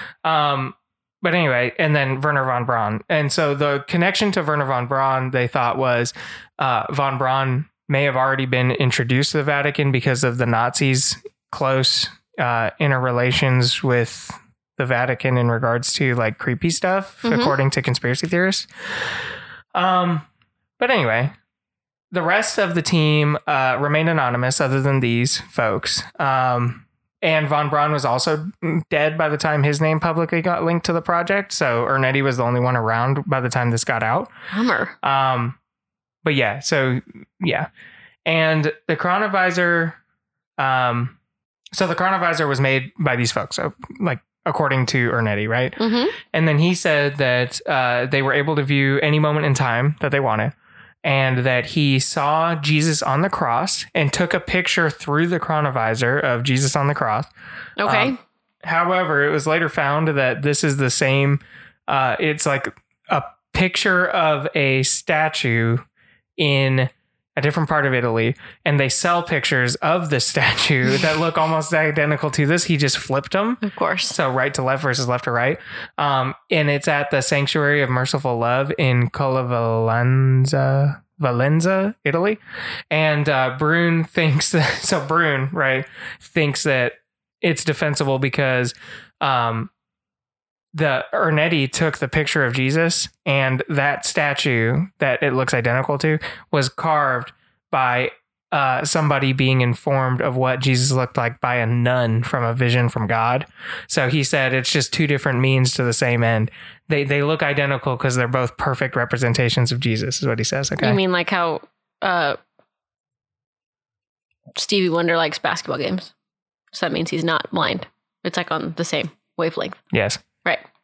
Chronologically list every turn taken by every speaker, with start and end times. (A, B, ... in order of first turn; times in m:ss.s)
0:00.2-0:18.7 A
0:17.2-0:17.5 B
0:19.8-0:20.3 A
0:20.8-0:21.3 A
0:22.1-0:34.3 A
0:34.5-0:35.0 B
0:35.0-0:35.6 A
0:36.2-0:37.7 A
0:38.3-0:40.0 A
0:40.6-0:41.2 A
0:41.7-0:50.5 A
0:45.8-0:46.2 B
0:51.0-0:57.3 A
0:57.8-0:58.2 B
0:57.8-1:05.8 A
1:06.4-1:22.4 A
1:13.6-1:14.2 B
1:22.9-1:29.7 A
1:30.7-1:51.0 A
1:50.8-1:52.4 B
1:54.6-1:56.1 B
1:56.7-1:59.8 B
1:59.9-2:00.2 A